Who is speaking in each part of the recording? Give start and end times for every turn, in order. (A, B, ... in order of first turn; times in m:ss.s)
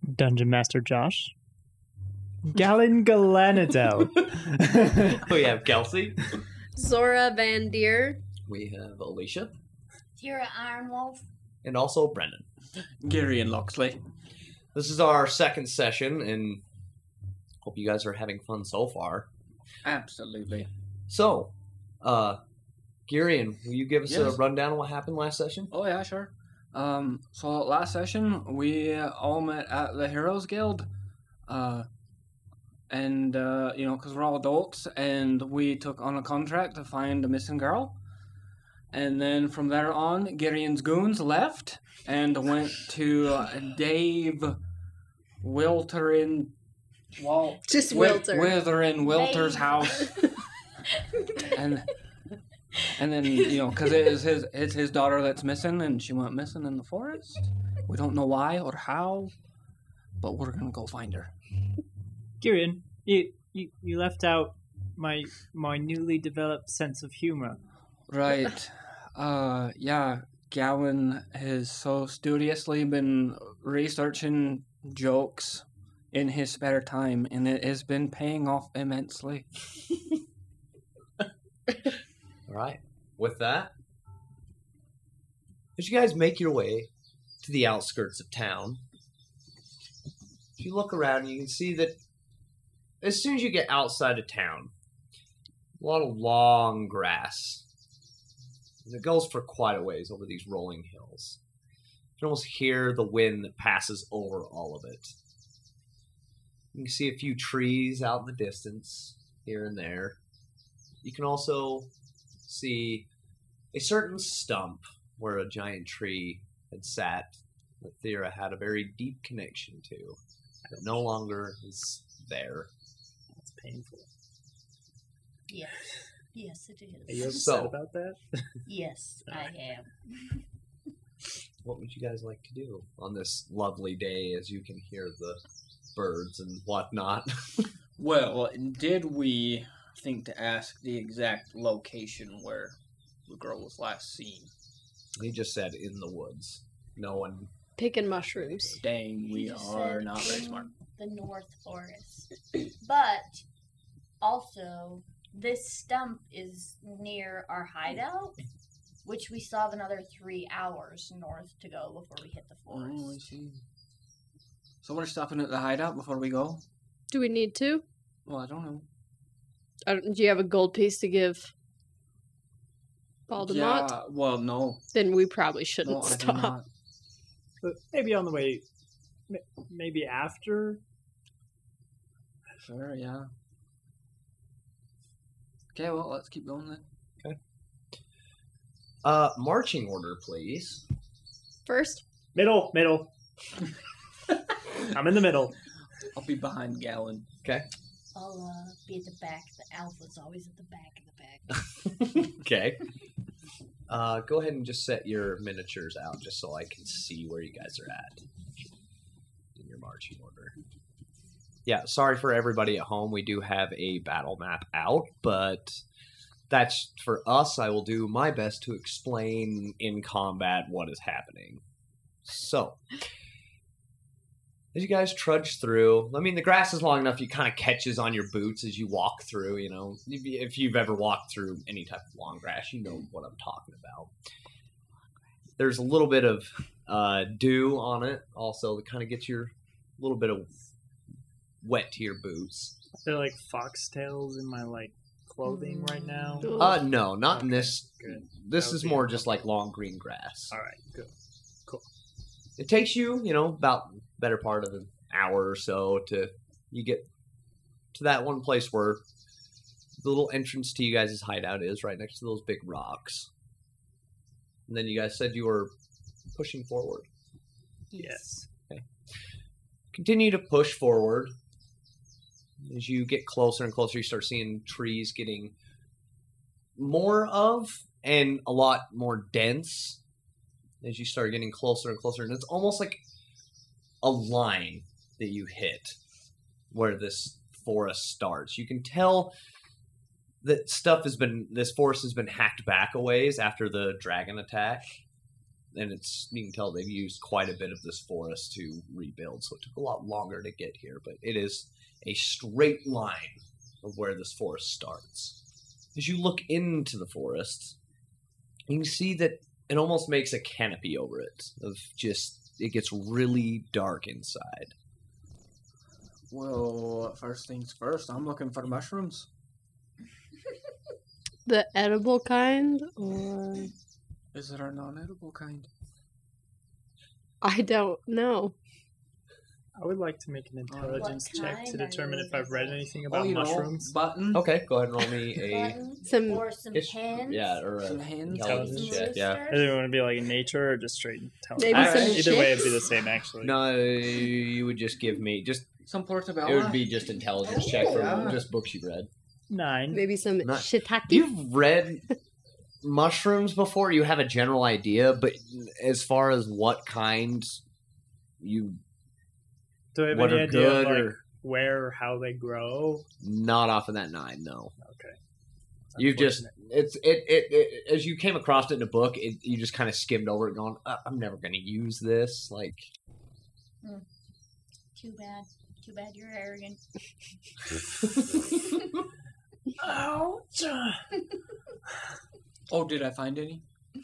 0:00.1-0:01.3 A
0:02.5-0:05.4 A
0:05.1-0:06.3 B
0:06.8-0:08.2 C
0:08.5-0:09.5 B
0:10.2-0:11.3 D
0:11.6-0:12.4 B
0:13.0-0:14.0 E
0:14.7-0:16.6 B
0:17.6-0:19.3 B
0:19.8-0:20.7 E
0:21.1-0:22.4 B
0:23.1-0:25.7 B
0:24.1-0:24.4 E
0:25.7-0:30.9 E
0:31.5-0:31.9 E
0:32.9-0:38.0 E
0:38.9-0:44.6 E
0:45.4-0:46.5 E
0:47.2-0:50.2 E
0:47.7-0:48.6 C
0:49.0-0:50.3 D
0:51.5-0:51.9 E
0:53.0-0:59.3 E
1:00.2-1:01.3 E
1:02.4-1:07.6 A
1:08.1-1:19.5 E
1:22.5-1:23.7 B
1:25.8-1:26.9 B
1:27.4-1:28.8 B
1:30.6-1:32.0 B
1:33.0-1:34.7 B
1:35.8-1:37.6 B
1:38.8-1:41.4 B
1:42.2-1:45.2 B
1:46.7-1:50.2 B
1:51.0-1:51.9 B
1:52.5-1:53.1 B
1:53.7-2:00.2 B
2:00.7-2:02.7 B
2:03.3-2:04.1 A
2:05.5-2:07.5 D
2:07.1-2:08.2 A
2:07.3-2:07.8 B
2:08.7-2:10.4 D
2:11.6-2:15.4 B
2:16.0-2:17.7 B
2:18.0-2:22.8 E
2:23.3-2:24.5 E
2:25.2-2:27.5 B
2:27.8-2:28.8 C
2:28.8-2:30.7 E
2:29.3-2:33.4 D
2:34.2-2:38.4 D
2:39.0-2:43.2 D
2:42.7-2:43.6 E
2:44.8-2:46.6 E
2:47.1-2:47.8 C
2:48.3-2:48.9 E
2:49.9-2:51.5 C
2:53.3-2:53.9 C
2:53.4-2:54.8 E
2:54.9-2:56.6 C
2:55.8-2:56.7 E
2:57.6-2:58.6 A
2:59.3-3:00.8 A
3:02.6-3:03.3 E
3:05.7-3:06.8 E
3:09.0-3:10.8 B
3:11.7-3:12.0 C
3:12.4-3:13.1 A
3:14.9-3:15.6 A
3:16.1-3:17.3 E
3:18.1-3:21.6 D
3:21.8-3:22.8 B
3:23.9-3:28.2 B
3:29.6-3:30.6 B
3:31.7-3:35.8 B
3:36.5-3:41.6 B
3:42.2-3:42.8 B
3:44.7-3:54.1 B
3:55.6-4:00.5 B
4:01.6-4:02.8 B
4:03.0-4:06.7 A
4:05.4-4:06.5 D
4:06.4-4:06.8 C
4:06.6-4:10.6 B
4:07.3-4:09.3 A
4:10.5-4:11.1 A
4:12.6-4:17.1 B
4:17.9-4:19.0 B
4:20.0-4:23.3 B
4:24.7-4:25.7 B
4:26.4-4:27.1 B
4:27.9-4:28.5 D
4:28.0-4:28.3 A
4:29.9-4:31.4 B
4:32.6-4:35.5 B
4:36.8-4:40.0 B
4:40.8-4:43.0 B
4:44.0-4:46.0 B
4:46.7-4:49.3 B
4:50.4-4:54.9 B
4:55.7-5:05.4 B
5:06.0-5:07.8 B
5:08.7-5:14.7 B
5:16.3-5:19.3 E
5:21.5-5:23.7 C
5:24.3-5:25.7 E
5:27.4-5:28.6 C
5:29.8-5:33.9 A
5:30.7-5:31.2 E
5:30.9-5:32.9 D
5:33.1-5:34.5 E
5:34.3-5:35.8 B
5:35.4-5:37.6 D
5:36.1-5:36.4 C
5:36.7-5:39.4 B
5:37.8-5:38.9 E
5:38.4-5:43.6 A
5:38.7-5:39.8 D
5:41.6-5:42.8 C
5:41.7-5:42.5 E
5:43.4-5:45.7 B
5:45.8-5:46.9 E
5:46.4-5:49.1 B
5:47.4-5:48.4 D
5:47.6-5:48.4 E
5:49.5-5:50.0 A
5:49.9-5:51.3 C
5:50.4-5:52.0 B
5:52.8-5:57.6 B
5:58.4-5:58.8 B
5:59.9-6:03.1 A
6:00.1-6:01.2 B
6:03.2-6:04.7 B
6:04.8-6:05.2 A
6:05.9-6:06.5 A
6:06.0-6:12.9 B
6:14.9-6:16.8 D
6:18.0-6:18.4 B
6:19.8-6:21.1 A
6:22.7-6:23.6 E